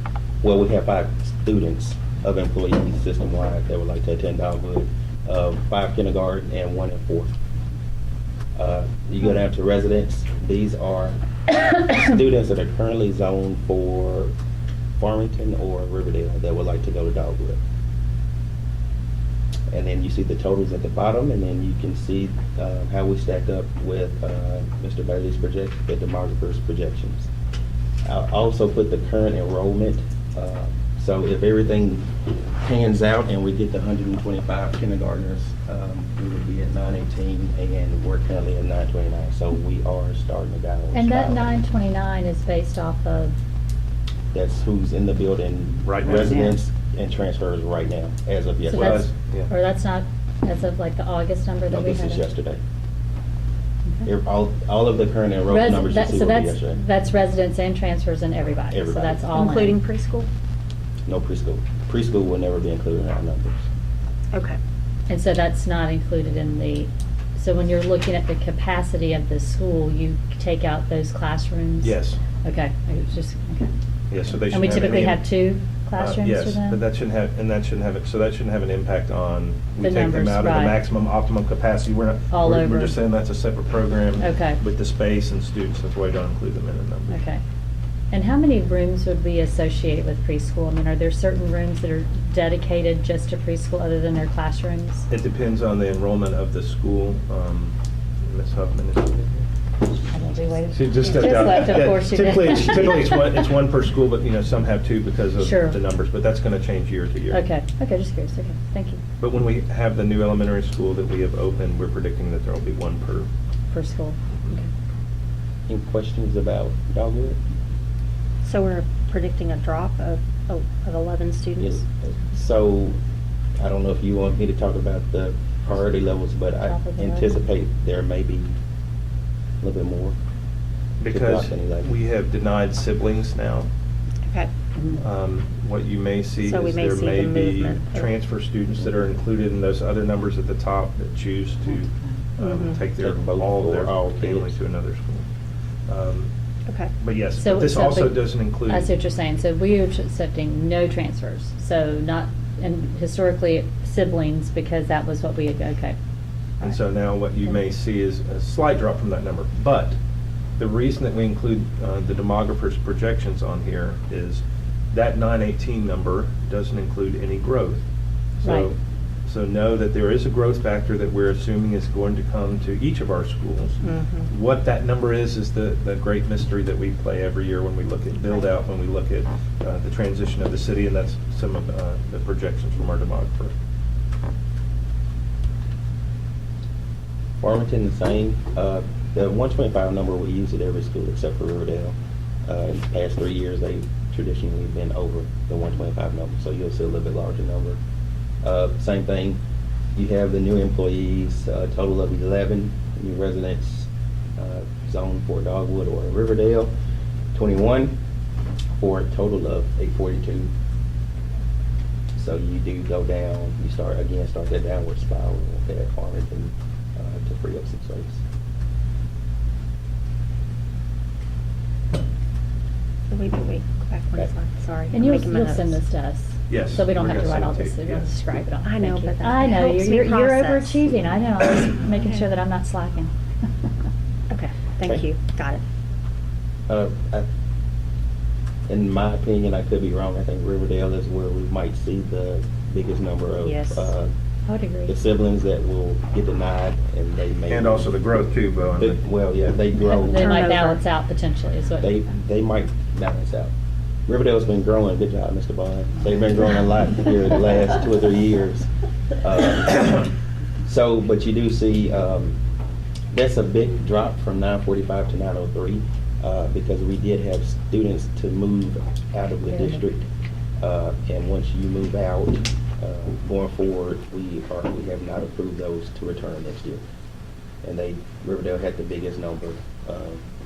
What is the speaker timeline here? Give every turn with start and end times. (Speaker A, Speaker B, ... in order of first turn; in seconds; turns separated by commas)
Speaker A: 0.4-7.3, Speaker A: 8.6-14.3, Speaker A: 15.0-17.6, Speaker A: 19.7-27.3, Speaker A: 28.0-32.1, Speaker A: 32.6-41.5, Speaker B: 40.9-43.3, Speaker A: 44.3-49.1, Speaker C: 45.8-46.4, Speaker B: 48.7-52.3, Speaker C: 48.7-49.5, Speaker A: 51.7-52.6, Speaker A: 54.0-56.8, Speaker B: 55.5-59.8, Speaker A: 58.7-59.4, Speaker D: 59.3-60.3, Speaker A: 61.1-63.6, Speaker D: 64.3-64.6, Speaker B: 65.1-73.7, Speaker C: 71.8-72.2, Speaker C: 74.1-75.3, Speaker B: 74.4-76.8, Speaker C: 76.0-87.2, Speaker B: 79.8-80.8, Speaker B: 82.3-83.0, Speaker B: 84.2-84.6, Speaker B: 87.1-87.4, Speaker B: 88.1-95.0, Speaker C: 95.1-99.5, Speaker B: 100.1-103.4, Speaker C: 100.7-107.4, Speaker D: 101.0-101.7, Speaker B: 105.4-105.8, Speaker B: 107.3-109.0, Speaker C: 109.2-113.3, Speaker B: 113.7-114.7, Speaker A: 115.7-117.4, Speaker D: 118.4-121.8, Speaker A: 121.6-123.0, Speaker A: 123.6-128.6, Speaker B: 126.6-127.4, Speaker A: 129.6-130.2, Speaker C: 131.0-133.7, Speaker A: 131.1-131.9, Speaker D: 134.2-134.5, Speaker C: 135.0-145.2, Speaker D: 136.4-138.1, Speaker D: 142.4-142.8, Speaker A: 143.0-144.6, Speaker C: 145.9-146.3, Speaker D: 146.7-146.9, Speaker C: 147.0-149.0, Speaker B: 147.4-156.0, Speaker C: 156.6-160.0, Speaker C: 160.6-167.8, Speaker C: 168.4-183.5, Speaker B: 168.4-168.7, Speaker D: 173.8-174.3, Speaker A: 187.4-197.8, Speaker A: 198.4-199.4, Speaker A: 199.9-206.7, Speaker A: 207.3-208.0, Speaker A: 208.7-210.5, Speaker A: 212.2-218.2, Speaker D: 223.1-225.8, Speaker B: 224.9-233.1, Speaker C: 226.5-228.2, Speaker D: 228.6-231.0, Speaker D: 234.3-235.6, Speaker A: 236.7-237.3, Speaker A: 238.7-244.1, Speaker D: 243.4-243.9, Speaker B: 244.5-245.0, Speaker A: 244.9-247.9, Speaker C: 247.5-249.0, Speaker A: 248.8-250.4, Speaker B: 249.8-251.9, Speaker D: 250.1-250.8, Speaker A: 251.8-253.5, Speaker A: 254.1-258.7, Speaker A: 259.2-260.1, Speaker A: 260.6-262.4, Speaker A: 263.1-270.1, Speaker A: 270.6-276.8, Speaker A: 277.6-280.2